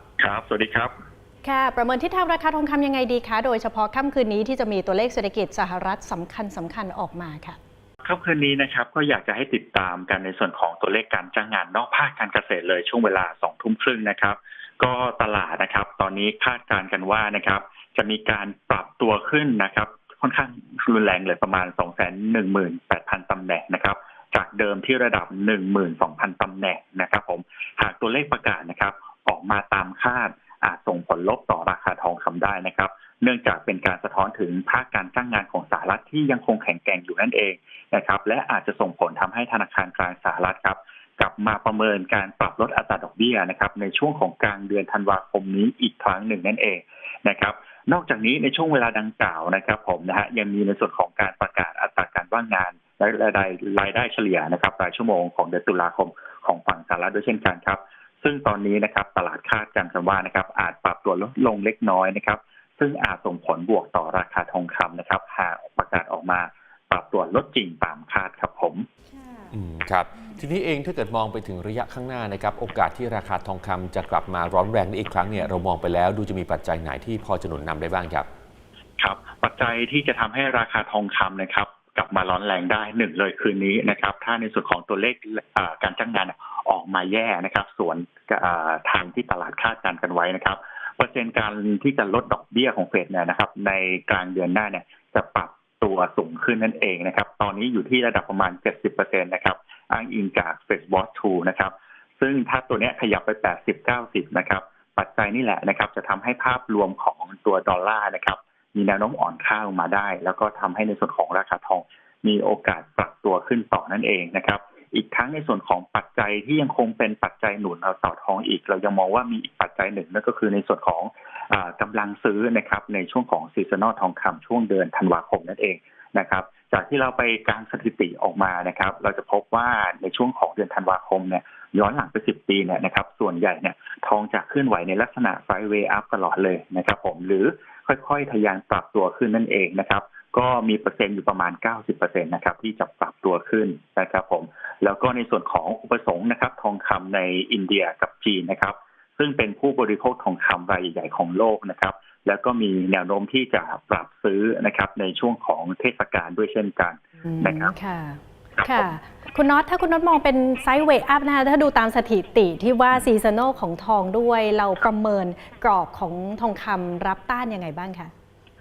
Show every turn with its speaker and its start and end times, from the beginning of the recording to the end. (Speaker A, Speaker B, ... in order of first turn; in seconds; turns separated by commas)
Speaker A: 0.2-0.9, Speaker B: 1.4-7.6, Speaker A: 8.0-68.9, Speaker B: 69.1-69.5, Speaker C: 69.5-78.3, Speaker A: 79.0-157.7, Speaker B: 157.2-168.1, Speaker A: 158.6-158.9